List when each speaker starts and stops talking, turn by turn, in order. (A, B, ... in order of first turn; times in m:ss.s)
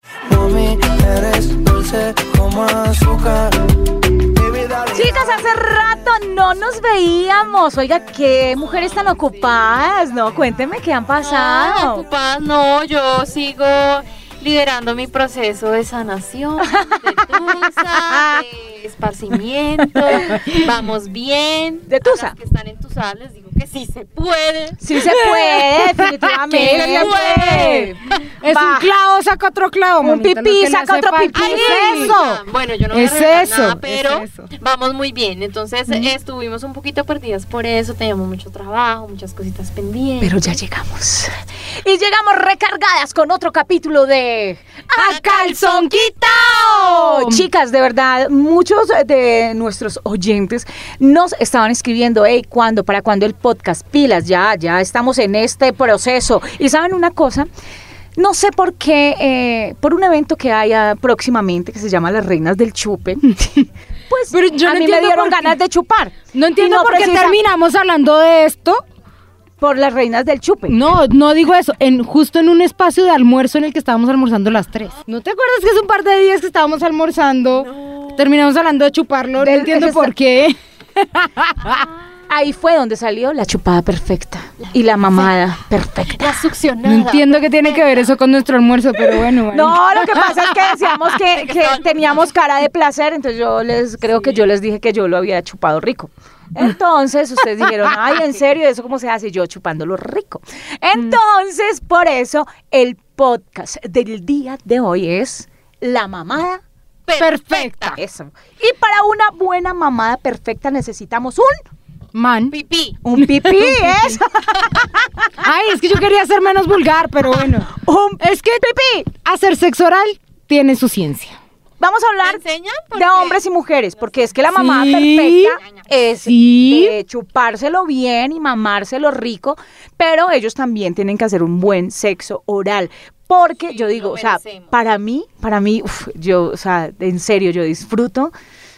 0:00.3-0:03.7 A
0:04.4-0:05.4 A
0:05.0-0:12.0 B
0:08.6-0:09.9 C
0:11.2-0:24.8 C
0:18.1-0:18.4 B
0:21.9-0:22.3 B
0:24.8-0:28.9 B
0:24.9-0:34.5 D
0:26.5-0:27.9 C
0:30.0-0:32.2 B
0:31.3-0:40.6 C
0:40.2-0:41.3 B
0:41.8-0:57.5 B
0:45.0-0:47.4 D
0:45.0-0:46.8 C
0:58.2-1:07.4 B
1:04.3-1:05.6 D
1:06.3-1:08.8 D
1:09.6-1:10.8 B
1:10.7-1:21.8 D
1:17.6-1:18.2 C
1:19.4-1:20.1 B
1:22.3-1:26.3 B
1:26.1-1:28.1 C
1:26.8-1:30.3 D
1:29.5-1:46.6 B
1:31.3-1:32.3 C
1:34.1-1:34.4 C
1:47.1-1:48.0 C
1:47.2-1:48.0 D
1:48.0-1:51.6 B
1:52.1-1:52.6 D
1:52.5-1:53.0 C
1:53.0-1:54.2 B
1:53.1-1:54.0 D
1:55.4-2:01.4 D
1:57.8-1:59.1 B
2:01.8-2:02.4 B
2:02.2-2:04.8 C
2:02.9-2:18.3 B
2:04.5-2:05.6 D
2:06.2-2:07.0 D
2:13.7-2:14.7 C